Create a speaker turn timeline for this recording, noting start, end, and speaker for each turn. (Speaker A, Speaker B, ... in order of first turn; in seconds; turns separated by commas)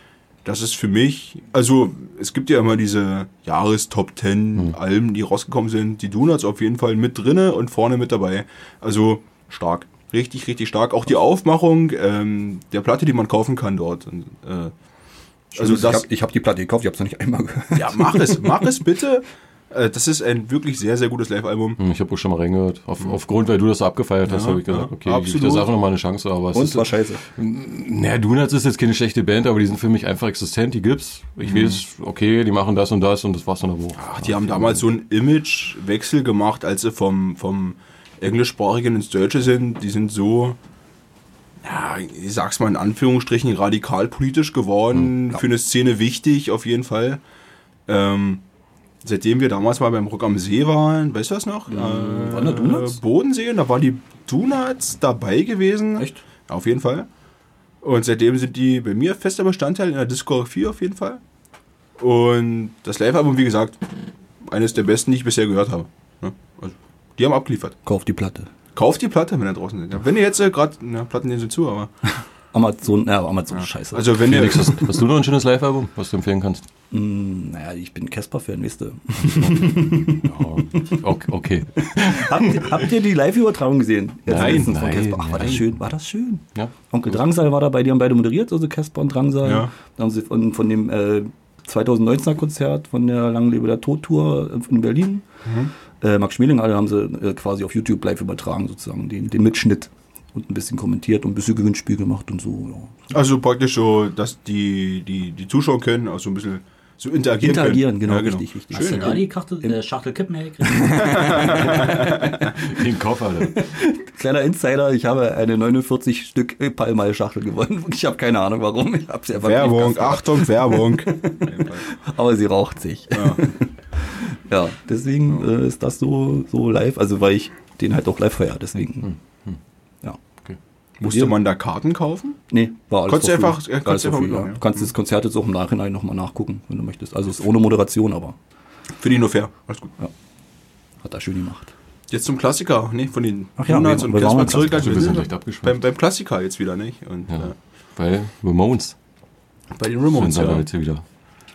Speaker A: 0.4-14.7, Speaker A: 15.6-16.1, Speaker B: 15.6-18.7, Speaker A: 17.7-21.8, Speaker C: 21.8-34.8, Speaker A: 24.3-25.7, Speaker B: 26.5-27.2, Speaker A: 31.4-31.8, Speaker A: 34.0-40.6, Speaker A: 41.6-47.2, Speaker A: 47.9-48.4, Speaker A: 49.0-57.1, Speaker B: 51.7-53.0, Speaker A: 57.8-61.2, Speaker A: 62.0-63.8, Speaker A: 64.4-67.8, Speaker B: 67.8-68.5, Speaker A: 68.7-71.9, Speaker B: 72.5-74.7, Speaker A: 73.9-74.9, Speaker C: 74.2-76.6, Speaker B: 76.9-80.2, Speaker C: 79.2-82.8, Speaker B: 81.8-95.2, Speaker C: 84.3-85.7, Speaker A: 89.4-89.7, Speaker A: 95.4-95.7, Speaker B: 96.0-102.9, Speaker A: 103.1-109.2, Speaker B: 107.4-109.8, Speaker D: 108.7-111.4, Speaker B: 110.6-112.3, Speaker A: 111.0-112.4, Speaker C: 111.8-113.6, Speaker B: 113.4-129.1, Speaker A: 119.4-121.9, Speaker A: 123.1-123.5, Speaker C: 129.1-129.6, Speaker A: 131.0-132.4, Speaker B: 131.0-131.4, Speaker B: 132.5-138.3, Speaker A: 133.1-134.9, Speaker A: 139.0-139.9, Speaker B: 141.0-141.7, Speaker A: 142.1-147.6, Speaker B: 143.6-145.1, Speaker C: 144.6-145.8, Speaker C: 147.3-148.9, Speaker A: 149.7-150.7, Speaker C: 150.1-151.0